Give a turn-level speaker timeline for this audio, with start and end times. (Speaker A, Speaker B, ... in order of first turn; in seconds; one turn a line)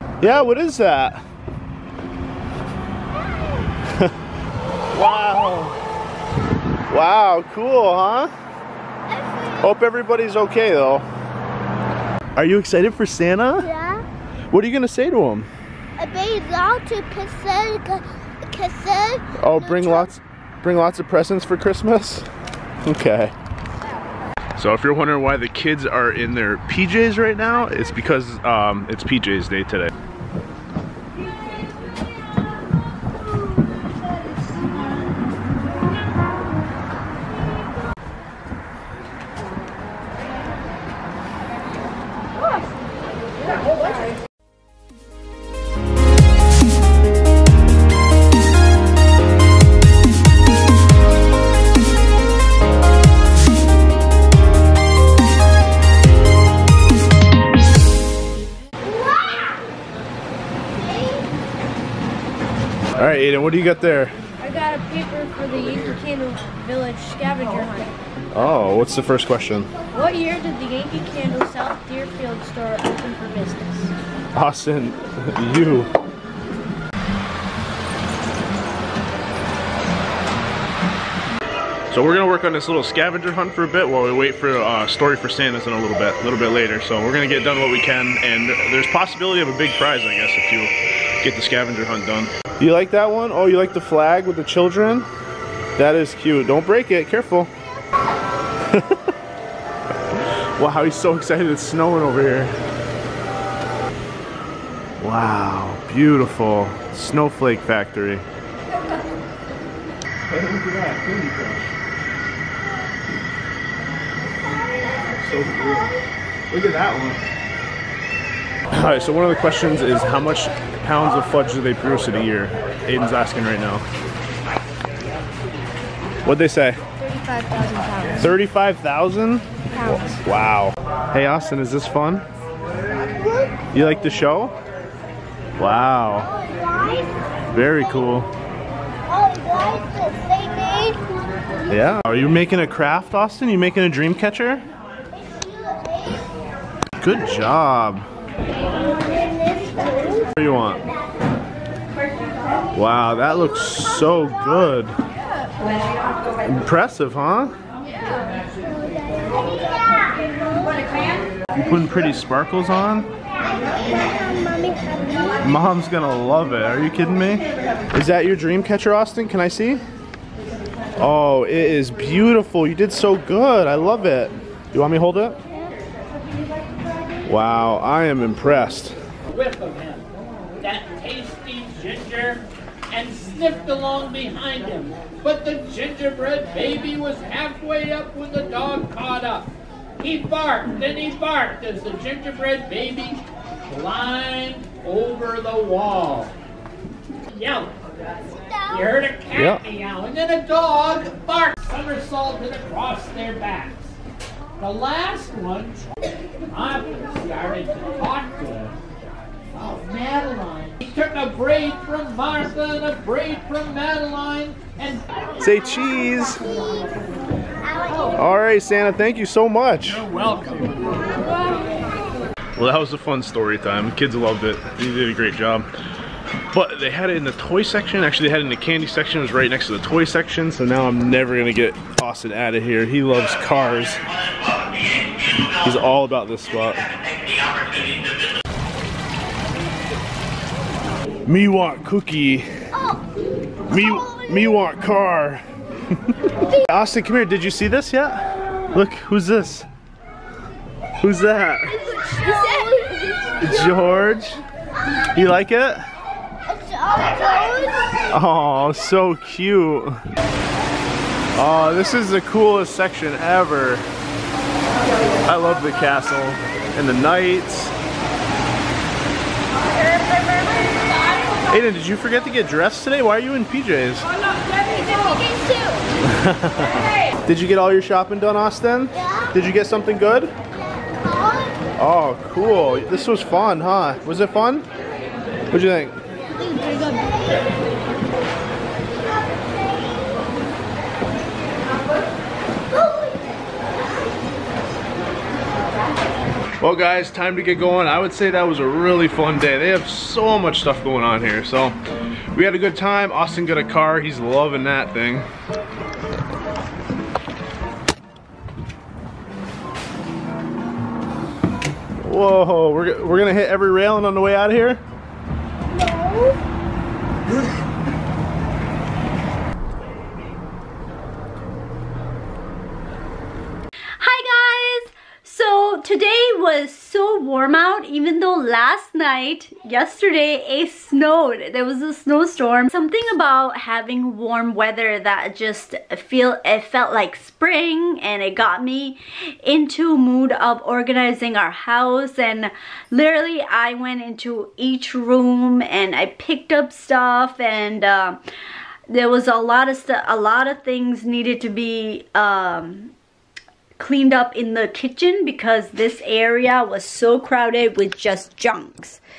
Speaker A: 0.2-1.2
Speaker B: 3.1-3.7
Speaker A: 4.9-5.8
Speaker A: 6.9-8.3
Speaker B: 9.1-9.7
Speaker A: 9.6-11.1
Speaker A: 12.3-13.7
Speaker B: 13.6-14.1
Speaker A: 14.5-15.5
Speaker B: 16.0-20.1
Speaker A: 19.4-22.2
Speaker A: 22.8-23.3
Speaker A: 24.6-29.9
Speaker C: 43.7-44.0
Speaker B: 58.8-59.7
Speaker B: 60.6-61.3
Speaker A: 62.9-64.2
Speaker C: 64.4-68.0
Speaker A: 68.3-69.7
Speaker C: 69.9-73.9
Speaker A: 74.3-75.9
Speaker A: 81.9-95.1
Speaker A: 95.8-97.5
Speaker A: 98.7-99.0
Speaker A: 100.6-102.5
Speaker A: 105.0-108.2
Speaker A: 110.3-111.7
Speaker B: 114.5-116.0
Speaker A: 115.2-115.9
Speaker A: 116.5-117.2
Speaker A: 118.7-123.8
Speaker A: 126.2-126.8
Speaker C: 127.0-128.3
Speaker A: 128.2-129.5
Speaker C: 129.7-130.2
Speaker A: 130.2-132.2
Speaker B: 133.1-133.7
Speaker A: 133.7-134.5
Speaker A: 135.6-136.3
Speaker B: 136.2-138.1
Speaker A: 137.5-138.3
Speaker B: 139.1-141.3
Speaker A: 141.7-144.6
Speaker B: 145.1-146.3
Speaker A: 147.0-148.1
Speaker B: 148.9-150.3
Speaker A: 150.4-150.8
Speaker A: 152.7-154.9
Speaker A: 156.4-157.6
Speaker B: 158.3-161.0
Speaker A: 161.5-163.1
Speaker B: 163.4-165.4
Speaker A: 165.4-169.8
Speaker A: 171.0-175.4
Speaker A: 177.2-178.9
Speaker D: 179.3-196.3
Speaker D: 197.3-197.8
Speaker B: 198.3-198.9
Speaker D: 198.7-203.9
Speaker A: 199.3-199.6
Speaker D: 204.6-205.8
Speaker D: 206.5-208.8
Speaker D: 209.5-215.1
Speaker A: 215.4-216.4
Speaker B: 216.1-218.3
Speaker A: 218.1-220.0
Speaker D: 219.8-221.1
Speaker A: 222.6-225.7
Speaker A: 226.5-234.0
Speaker A: 235.5-236.9
Speaker A: 241.2-242.4
Speaker B: 242.7-243.0
Speaker A: 243.7-245.4
Speaker B: 243.7-244.5
Speaker A: 246.6-249.7
Speaker A: 251.0-251.7
Speaker C: 251.8-253.2
Speaker B: 251.8-253.8
Speaker A: 253.4-254.4
Speaker B: 254.8-255.1
Speaker A: 255.1-255.9
Speaker B: 256.5-258.1
Speaker A: 258.1-259.9
Speaker A: 261.3-263.9
Speaker A: 265.2-267.7
Speaker C: 269.9-270.6
Speaker A: 271.5-274.1
Speaker C: 274.5-275.8
Speaker A: 276.0-276.7
Speaker A: 277.2-280.3
Speaker B: 278.9-279.3
Speaker B: 280.5-281.6
Speaker A: 281.8-284.6
Speaker A: 285.5-285.9
Speaker B: 286.2-287.6
Speaker B: 289.0-290.3
Speaker B: 292.7-293.5
Speaker A: 296.6-301.8
Speaker A: 302.3-305.3
Speaker A: 312.0-314.8
Speaker B: 315.7-316.4
Speaker E: 324.0-348.2
Speaker E: 348.9-352.9
Speaker E: 353.8-359.0